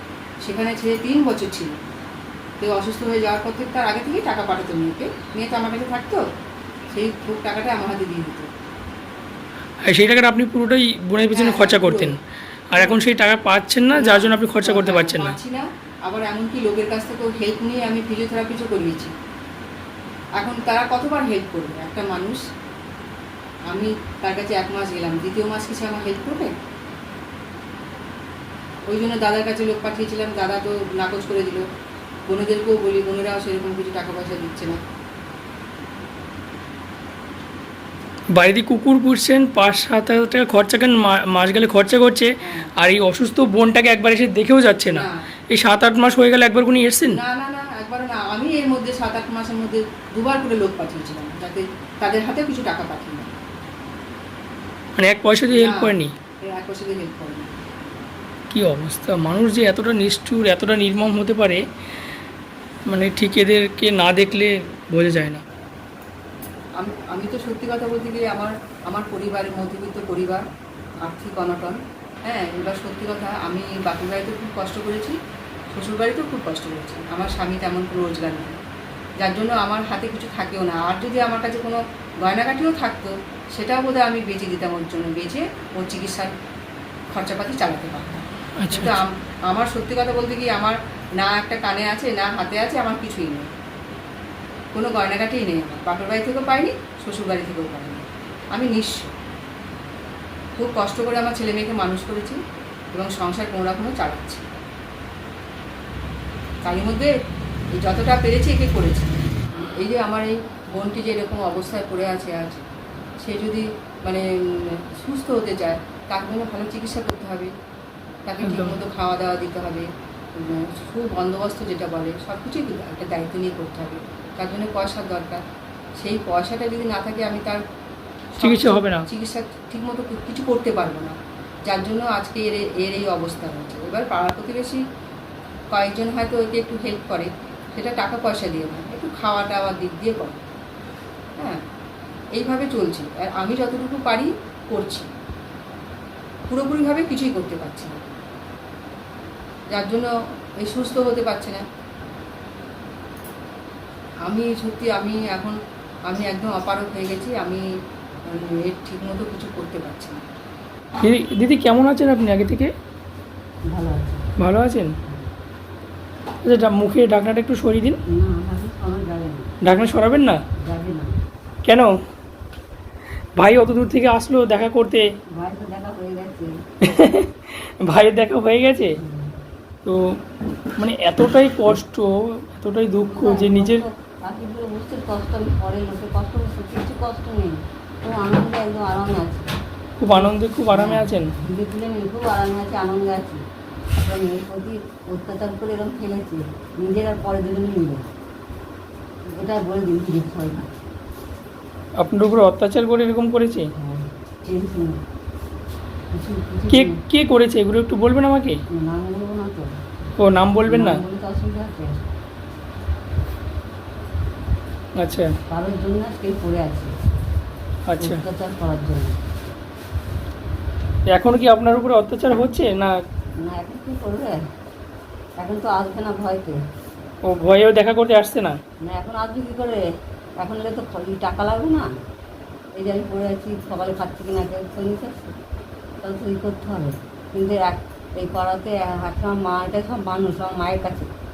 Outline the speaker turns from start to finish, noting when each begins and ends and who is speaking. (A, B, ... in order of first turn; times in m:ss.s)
0:00.4-0:01.8 A
0:02.6-0:06.2 A
0:06.9-0:08.5 A
0:09.9-0:12.2 B
0:11.3-0:12.1 A
0:12.7-0:15.4 B
0:12.8-0:13.0 A
0:13.9-0:19.1 A
0:20.4-0:22.4 A
0:23.7-0:26.5 A
0:28.9-0:31.6 A
0:32.3-0:34.8 A
0:38.3-0:47.2 B
0:42.4-0:42.7 A
0:44.9-0:45.2 A
0:47.1-0:53.3 A
0:55.0-0:56.1 B
0:55.5-0:57.5 A
0:58.5-1:01.6 B
1:02.9-1:05.4 B
1:06.8-1:10.4 A
1:11.0-1:15.2 A
1:15.7-1:18.6 A
1:19.2-1:26.3 A
1:27.1-1:33.5 A
1:28.6-1:29.0 B
1:34.7-1:39.1 A
1:40.6-1:42.4 A
1:42.9-1:44.4 A
1:46.6-1:47.1 A
1:47.8-1:52.6 A
1:53.2-1:57.5 A
1:58.3-2:05.4 A
1:58.4-1:58.8 B
2:06.0-2:07.6 A
2:08.4-2:14.8 A
2:08.4-2:09.1 B
2:15.7-2:20.4 A
2:22.3-2:25.1 A
2:26.5-2:28.0 A
2:29.7-2:31.6 A
2:34.2-2:37.7 A
2:38.3-2:40.2 A
2:41.0-2:42.7 B
2:43.7-2:44.2 C
2:44.4-2:44.9 B
2:46.4-2:48.0 B
2:48.1-2:49.5 C
2:49.6-2:50.4 B
2:50.6-2:51.2 C
2:53.4-2:55.1 B
2:55.4-2:56.6 C
2:56.8-2:59.0 B
2:59.0-2:59.4 C
2:59.8-3:00.2 B
3:00.8-3:03.8 B
3:03.1-3:09.5 C
3:10.0-3:11.3 B
3:10.1-3:13.4 C
3:14.0-3:18.0 C
3:19.3-3:20.7 C
3:22.0-3:23.7 B
3:23.8-3:25.0 C
3:26.1-3:27.0 C
3:26.7-3:28.6 B
3:28.7-3:29.7 C
3:30.2-3:31.0 B
3:30.7-3:32.0 C
3:35.0-3:35.3 B
3:35.5-3:36.9 C
3:37.9-3:38.2 B
3:38.0-3:39.2 C
3:41.1-3:42.9 B
3:43.4-3:44.4 C
3:45.4-3:46.6 C
3:47.3-3:48.6 B
3:48.8-3:49.8 C
3:50.4-3:51.9 C
3:52.8-3:55.3 C
3:56.0-4:01.1 C